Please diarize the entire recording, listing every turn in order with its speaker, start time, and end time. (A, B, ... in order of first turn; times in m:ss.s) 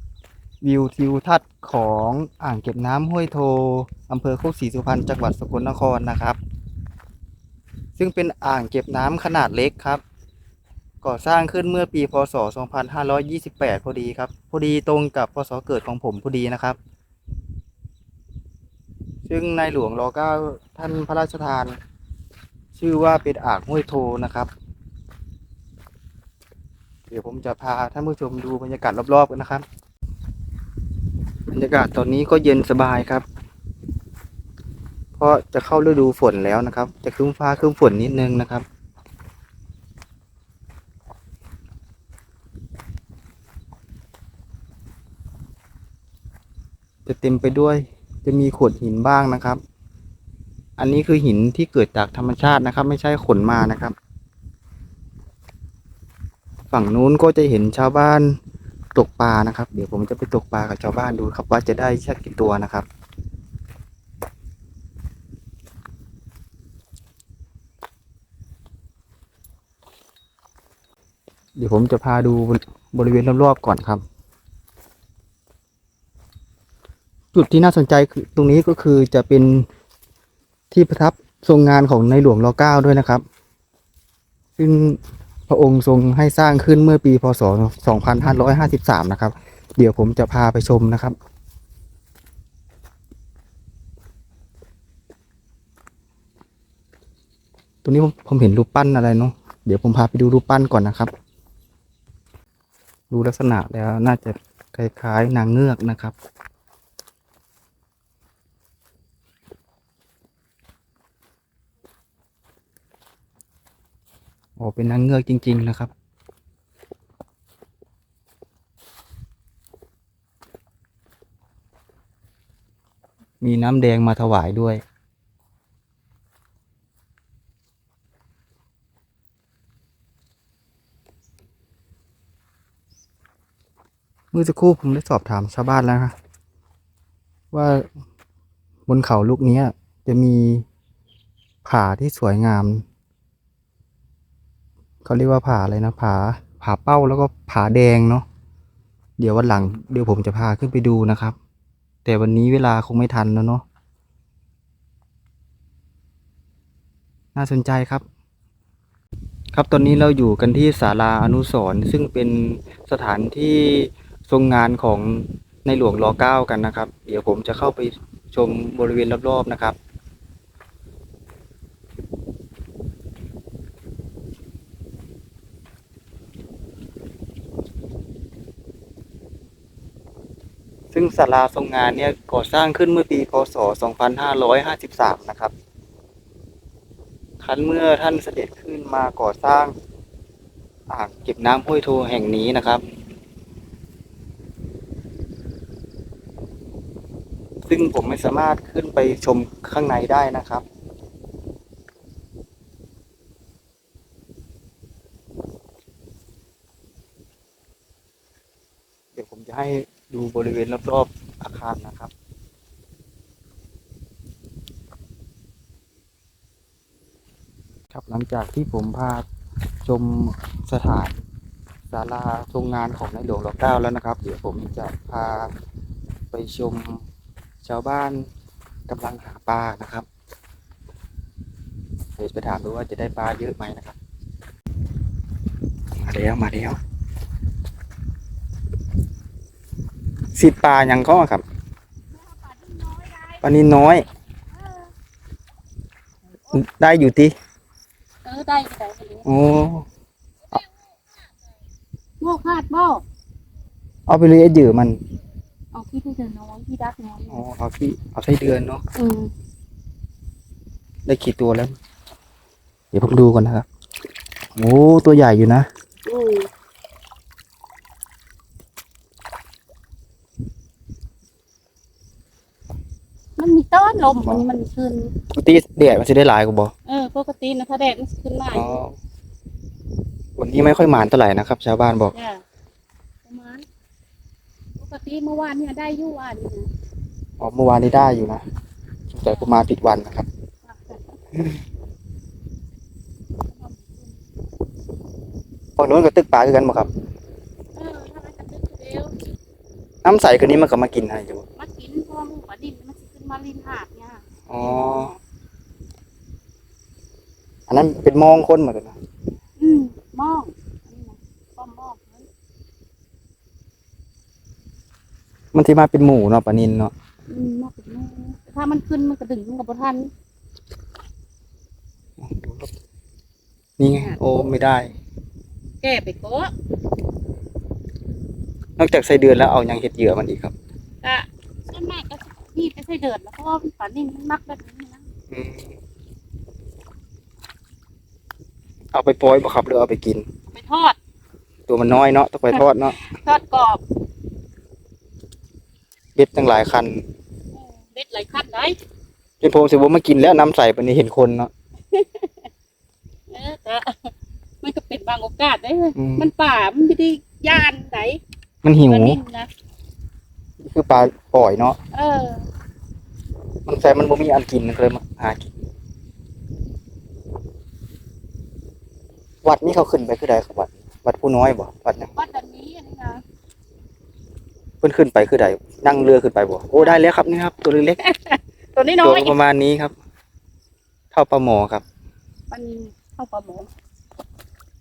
0:00.6-0:06.4 A
0:08.0-0:10.0 A
0:11.0-0:16.8 A
0:19.2-0:21.8 A
0:22.7-0:24.5 A
0:27.1-0:29.6 A
0:31.5-0:33.2 A
0:35.2-0:38.6 A
0:47.0-0:49.6 A
0:50.8-0:53.9 A
0:56.7-0:58.3 A
0:58.9-1:02.8 A
1:11.6-1:14.0 A
1:17.3-1:19.6 A
1:20.7-1:23.2 A
1:24.6-1:31.1 A
1:37.8-1:41.1 A
1:43.1-1:46.1 A
1:54.6-1:55.9 A
2:03.4-2:04.8 A
2:14.3-2:16.1 A
2:17.5-2:17.9 A
2:18.9-2:20.6 A
2:21.6-2:22.8 A
2:25.0-2:28.2 A
2:29.2-2:31.4 A
2:32.0-2:33.6 A
2:37.3-2:38.0 A
2:39.5-2:49.8 A
3:00.9-3:05.5 A
3:07.4-3:09.7 A
3:10.9-3:12.8 A
3:17.6-3:20.6 A
3:29.1-3:32.1 A
3:37.9-3:39.2 A
3:39.8-3:41.2 A
3:41.9-3:45.5 A
3:46.3-3:47.0 A
3:47.6-3:48.2 A
3:48.9-3:50.0 A
3:52.2-3:54.0 A
3:56.0-3:56.8 A
4:00.3-4:01.4 A
4:02.1-4:03.7 B
4:03.4-4:04.0 A
4:04.5-4:04.9 B
4:06.5-4:07.3 A
4:08.2-4:09.3 B
4:09.2-4:09.8 A
4:12.2-4:13.0 B
4:14.1-4:15.0 A
4:15.7-4:17.4 B
4:17.3-4:18.8 A
4:19.0-4:19.3 B
4:21.0-4:21.7 A
4:22.9-4:23.6 A
4:24.6-4:25.6 A
4:26.0-4:26.5 B
4:33.4-4:35.1 B
4:35.3-4:36.7 A
4:36.9-4:38.8 B
4:38.5-4:38.9 A
4:40.4-4:42.1 A
4:42.1-4:42.4 B
4:43.2-4:43.6 B
4:44.8-4:46.7 B
4:47.4-4:48.4 A
4:49.1-4:50.2 A
4:50.6-4:51.0 B
4:53.5-4:54.2 B
4:55.8-4:56.9 A
4:57.7-4:59.1 B
5:00.0-5:01.4 A
5:01.6-5:05.2 B
5:04.5-5:05.1 A
5:07.7-5:09.0 A
5:09.6-5:12.3 B
5:15.5-5:16.9 A
5:17.3-5:20.1 B
5:22.2-5:22.7 A
5:23.8-5:24.9 A
5:25.8-5:26.5 B
5:28.8-5:30.5 A
5:31.0-5:35.0 B
5:35.3-5:35.7 A
5:38.9-5:40.2 A
5:40.5-5:41.0 B
5:41.7-5:43.0 A
5:42.5-5:43.8 B
5:46.2-5:47.0 A
5:47.5-5:48.8 B
5:49.4-5:51.5 A
5:51.9-5:52.5 B
5:53.3-5:58.2 B
5:56.0-5:56.3 A
5:58.6-5:59.2 A
5:58.9-5:59.5 B
6:00.6-6:01.8 A
6:01.9-6:02.5 B
6:03.7-6:05.5 A
6:09.4-6:12.1 A
6:12.1-6:13.2 B
6:14.8-6:18.0 A
6:18.0-6:19.4 B
6:19.0-6:19.9 A
6:21.1-6:21.8 A
6:22.5-6:23.7 B